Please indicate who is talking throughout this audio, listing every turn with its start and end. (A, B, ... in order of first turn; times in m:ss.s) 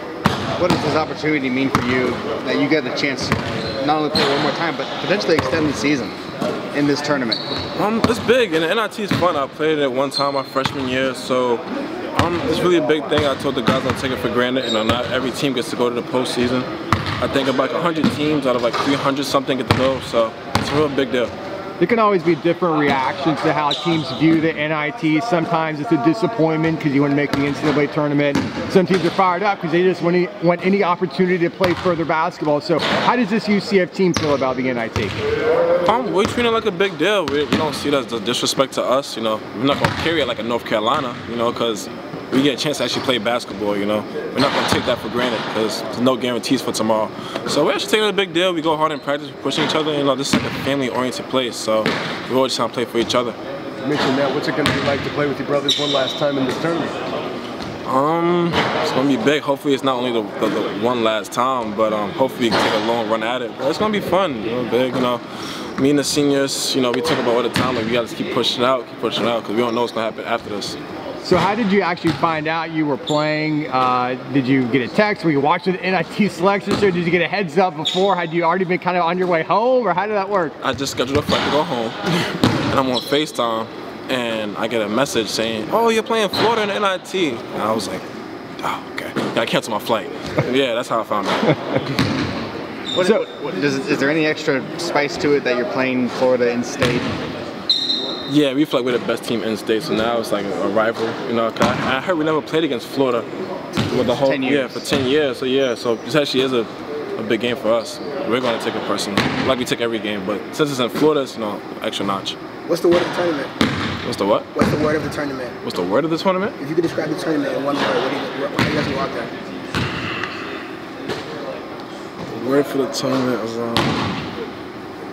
0:00.6-0:06.2 A
0:06.7-0:07.4 A
0:07.8-0:21.3 B
0:21.8-0:35.2 C
0:35.8-0:53.4 B
0:53.8-0:57.0 D
0:57.8-1:05.2 B
1:05.8-1:10.8 B
1:11.2-1:20.6 C
1:20.6-1:28.0 B
1:28.6-1:31.8 B
1:32.9-1:37.1 A
1:33.0-1:33.2 C
1:38.3-1:43.3 B
1:43.9-1:52.4 B
1:43.9-1:44.8 A
1:52.6-1:53.5 E
1:54.0-1:54.5 B
1:54.5-1:55.6 E
1:55.6-1:56.6 B
1:56.6-1:59.3 E
2:02.3-2:04.2 B